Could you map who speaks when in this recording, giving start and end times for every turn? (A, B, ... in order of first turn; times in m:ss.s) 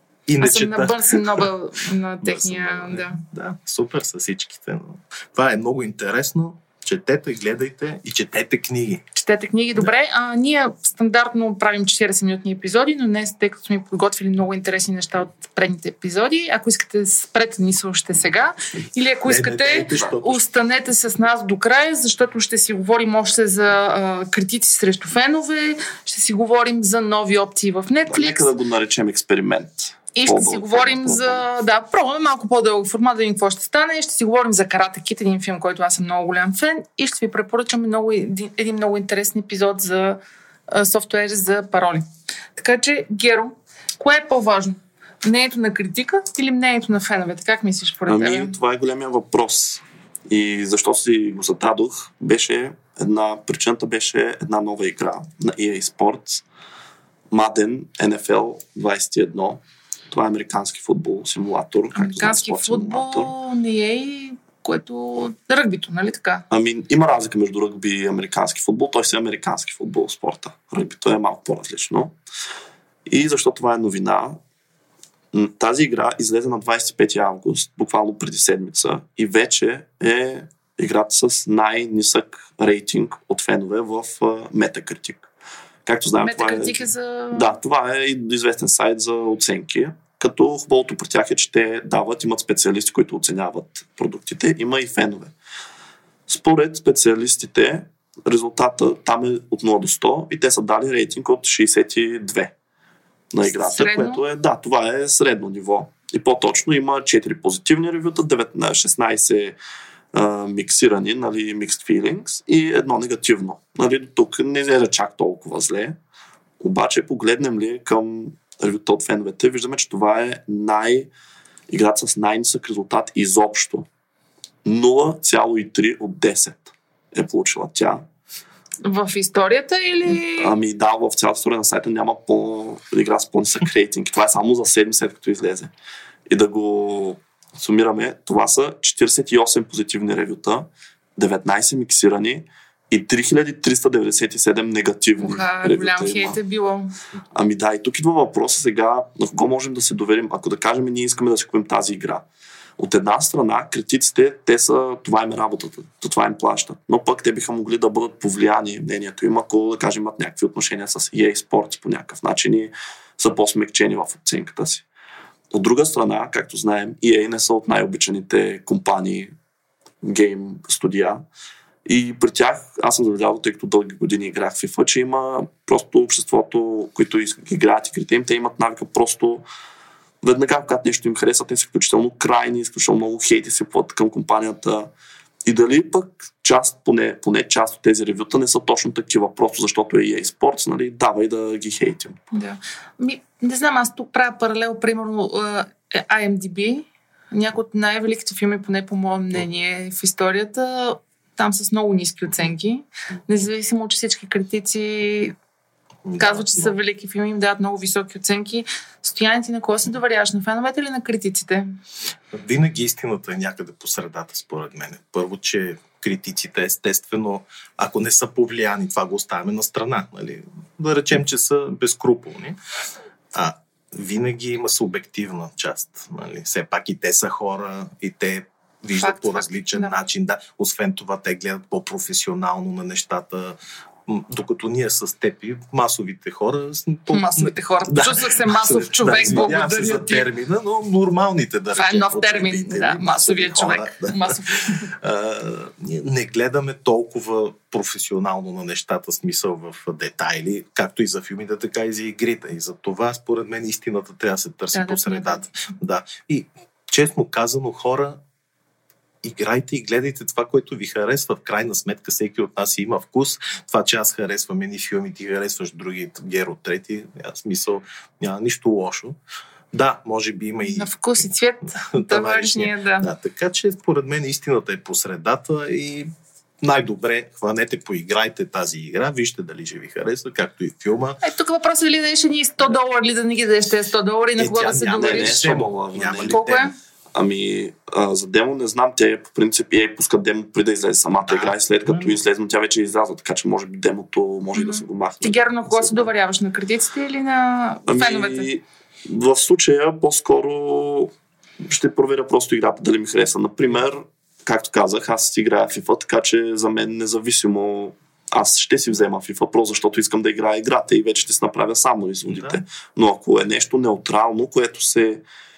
0:00.3-0:01.5 A
0:00.4-0:03.2 B
0:02.2-0:09.0 A
0:09.1-0:28.5 B
0:19.2-0:20.4 A
0:28.1-0:31.4 C
0:30.2-0:48.5 B
0:48.1-0:56.4 C
0:57.3-1:03.3 C
1:01.9-1:06.4 B
1:06.5-1:12.1 C
1:13.1-1:14.4 C
1:15.3-1:25.3 C
1:25.8-1:35.3 C
1:26.2-1:27.5 B
1:36.3-1:42.5 C
1:43.3-1:49.6 C
1:43.4-1:44.2 B
1:50.1-1:56.0 C
1:56.6-2:01.1 C
2:01.7-2:03.9 C
2:04.6-2:08.0 C
2:08.8-2:10.5 B
2:10.2-2:15.7 C
2:16.3-2:26.4 C
2:25.2-2:26.9 B
2:27.3-2:32.2 C
2:32.8-2:44.8 C
2:45.5-2:49.3 C
2:50.0-2:51.2 C
2:51.8-2:59.4 C
3:00.2-3:04.9 C
3:05.4-3:12.2 C
3:12.3-3:25.3 B
3:26.0-3:26.8 A
3:26.2-3:31.7 B
3:32.3-3:42.6 A
3:43.3-4:18.2 A
3:49.0-3:50.0 B
3:57.1-4:00.3 B
4:01.8-4:04.9 B
4:14.7-4:15.5 B
4:19.2-4:29.2 A
4:29.7-4:36.1 A
4:30.7-4:33.1 B
4:36.6-4:41.2 A
4:41.2-4:45.6 B
4:44.4-4:46.7 A
4:44.9-4:46.4 C
4:46.3-4:46.7 B
4:47.1-4:56.1 C
4:51.3-4:52.2 A
4:54.5-4:58.5 B
4:57.9-5:01.1 C
5:01.6-5:15.2 C
5:12.3-5:12.6 A